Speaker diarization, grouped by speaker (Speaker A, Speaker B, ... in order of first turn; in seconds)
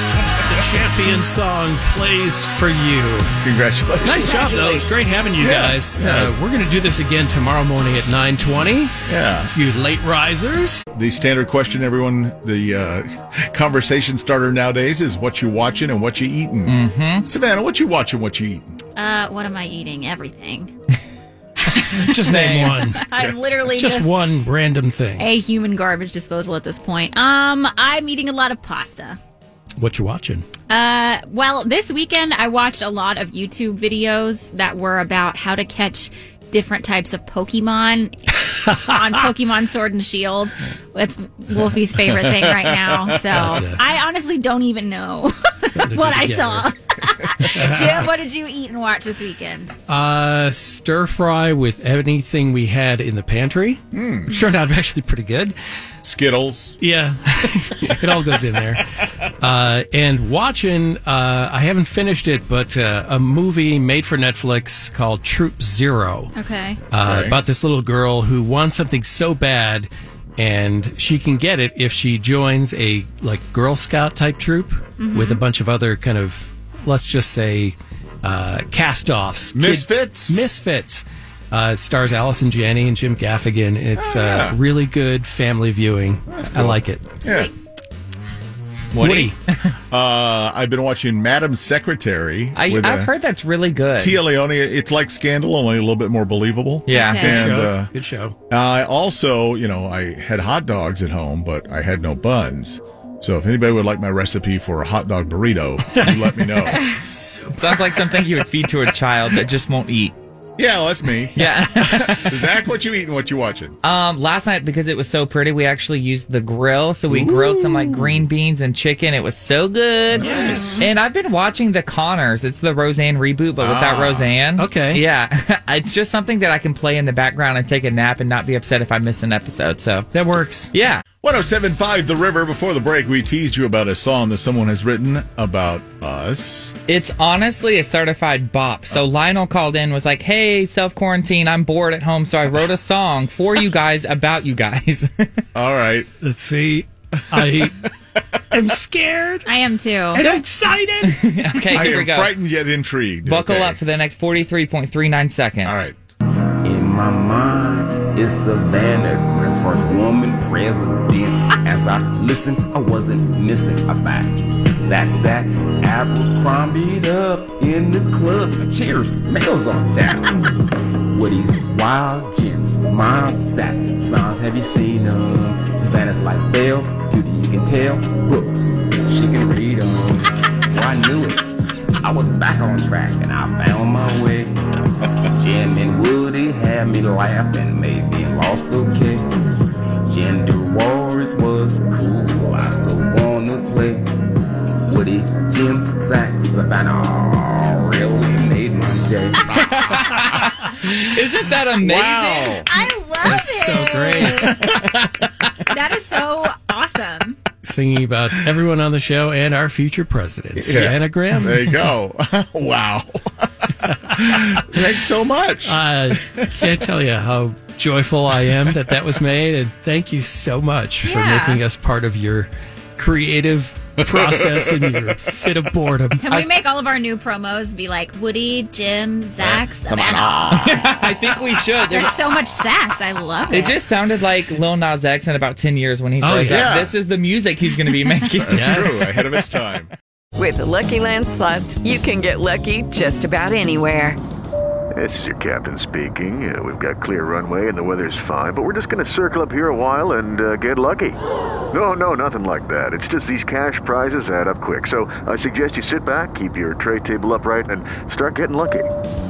Speaker A: 0.4-3.3, 4.0-8.9, 9.5-10.8, 21.8-23.1, 23.8-25.3, 29.8-30.5, 43.3-43.8, 45.6-46.7, 47.4-48.1, 49.9-55.6, 56.8-58.8, 59.4-66.3, 66.9-87.1, 89.0-89.3, 97.2-98.4, 107.0-107.8, 124.6-125.0, 130.1-130.7, 146.2-147.8, 148.5-149.5, 150.1-151.3, 200.6-201.2, 203.2-204.6, 207.6-211.9, 213.9-214.6, 215.7-226.4, 236.2-236.6, 238.5-239.1
Speaker B: 3.4-4.8, 5.4-6.3, 9.1-9.5, 10.9-18.8, 42.0-43.2, 53.9-54.4, 56.0-56.8, 57.8-58.1, 67.0-67.4, 79.5-80.5, 84.0-84.6, 86.3-87.5, 88.9-89.4, 89.9-93.1, 94.0-97.9, 98.5-106.9, 110.6-113.8, 117.1-118.2, 120.1-120.9, 123.6-124.3, 131.2-136.7, 145.5-146.1, 147.4-147.7, 151.7-153.8, 155.7-156.0, 201.8-202.7, 204.3-205.2, 210.6-216.5, 224.0-225.2, 236.5-236.9, 238.3-239.9
Speaker C: 4.3-4.8, 19.0-20.7, 21.7-24.1, 25.2-29.2, 30.7-49.8, 66.3-66.8, 75.0-75.4, 87.2-87.5, 96.9-97.6, 120.2-120.8, 149.5-150.3, 202.6-204.8, 205.7-207.4, 221.0-221.6, 226.2-231.1, 231.8-233.8
Speaker D: 16.6-17.2, 22.3-22.7, 92.5-94.2, 96.9-97.3, 107.5-110.1, 111.3-112.4, 113.8-130.1, 130.7-131.0, 136.9-145.4, 151.1-152.3, 153.3-155.9, 201.1-202.6, 230.5-232.2, 233.5-239.1
Speaker E: 156.6-170.5, 171.1-181.5, 182.0-184.6, 185.4-189.3, 190.1-194.1, 194.9-200.6, 229.9-230.9
Speaker F: 240.4-244.2
Speaker G: 244.9-251.2, 251.7-258.9